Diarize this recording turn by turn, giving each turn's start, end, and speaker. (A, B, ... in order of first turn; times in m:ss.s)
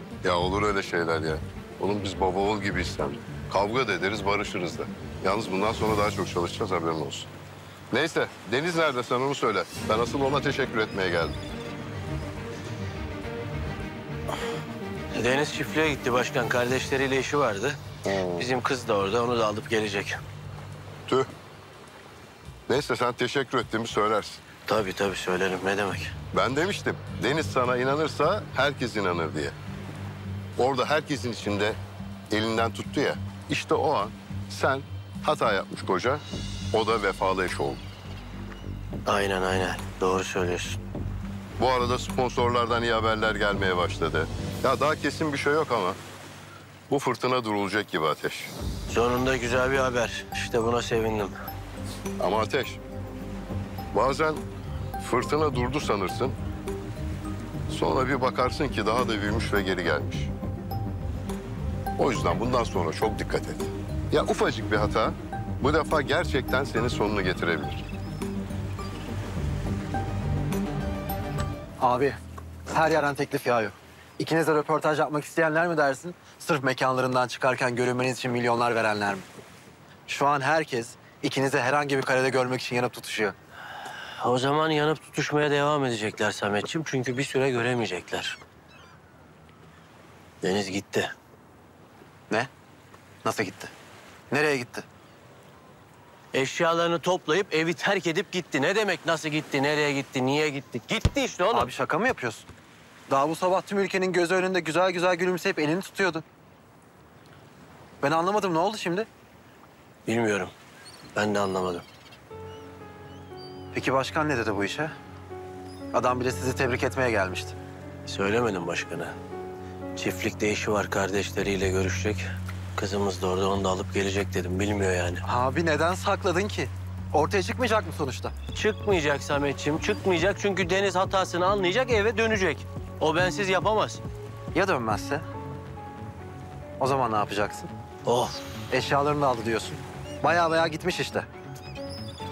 0:00.2-0:07.3 A
0:07.9-0:11.4 A
0:15.1-0:17.8 B
0:18.0-0:18.5 A
0:18.3-0:20.2 B
0:22.7-0:24.4 A
0:24.7-0:26.2 B
0:26.3-0:29.6 A
0:30.6-0:31.8 A
0:32.3-0:37.8 A
0:39.1-0:40.8 B
0:41.6-0:46.0 A
0:46.9-0:48.5 A
0:48.9-0:51.4 B
0:52.2-0:52.8 A
0:53.9-0:54.4 A
0:55.0-0:56.4 A
0:57.7-1:00.3 A
1:02.0-1:07.9 A
1:11.8-1:12.2 C
1:12.7-1:19.3 C
1:20.1-1:23.3 C
1:24.2-1:28.4 B
1:30.4-1:31.1 B
1:33.2-1:33.7 C
1:34.3-1:34.8 C
1:36.3-1:41.7 B
1:41.5-1:42.5 C
1:43.1-1:46.2 C
1:48.0-1:49.1 C
1:50.1-1:50.5 B
1:51.2-1:51.8 B
1:53.7-1:54.9 C
1:55.9-1:57.6 C
1:58.1-1:59.1 B
2:00.0-2:05.2 B
2:05.2-2:08.3 C
2:08.5-2:14.0 B
2:14.5-2:15.2 C
2:16.8-2:17.7 C
2:18.1-2:18.4 B
2:18.7-2:21.3 C